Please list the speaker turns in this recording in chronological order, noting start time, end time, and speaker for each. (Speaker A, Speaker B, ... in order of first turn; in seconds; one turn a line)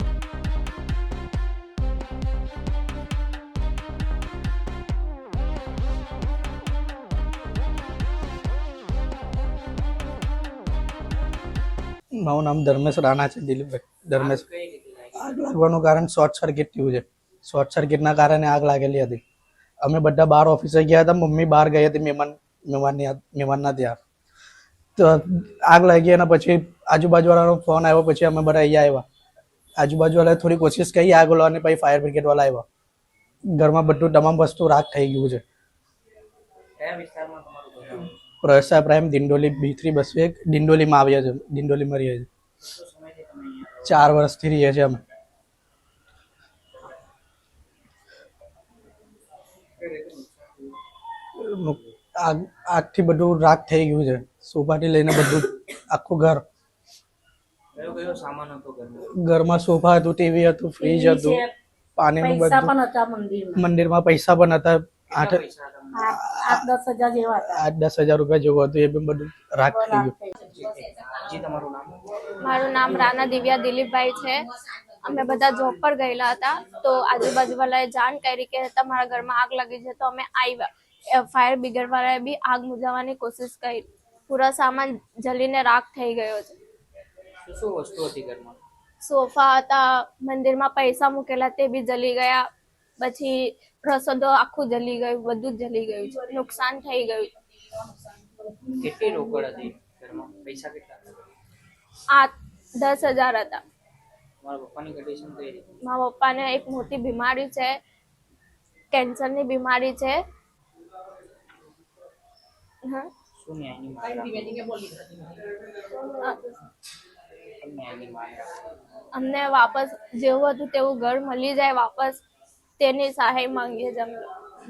Speaker A: 12.2-14.4
Speaker B: 14.1-15.3
Speaker A: 15.2-19.2
Speaker A: 19.8-24.0
Speaker A: 25.0-29.0
Speaker A: 29.8-32.6
Speaker A: 33.5-35.4
Speaker B: 36.8-38.1
Speaker A: 38.4-42.3
Speaker B: 42.6-44.0
Speaker A: 43.8-45.0
Speaker B: 49.8-50.8
Speaker A: 51.4-56.4
Speaker B: 57.7-59.1
Speaker A: 59.1-61.4
Speaker C: 60.8-61.4
Speaker A: 62.0-62.7
Speaker C: 62.2-63.6
Speaker A: 63.6-65.4
Speaker B: 65.1-66.0
Speaker A: 66.1-66.7
Speaker C: 66.1-67.3
Speaker A: 67.5-70.1
Speaker C: 69.8-70.2
Speaker B: 70.4-72.3
Speaker D: 72.4-74.5
Speaker D: 75.0-86.6
Speaker B: 87.5-88.6
Speaker D: 89.0-92.5
Speaker D: 93.0-97.3
Speaker B: 98.7-101.0
Speaker D: 102.1-103.6
Speaker B: 104.4-105.8
Speaker D: 105.8-107.8
Speaker D: 108.9-110.2
Speaker B: 113.4-115.4
Speaker D: 115.9-116.6
Speaker B: 117.6-118.5
Speaker D: 119.1-122.2
Speaker D: 122.8-124.3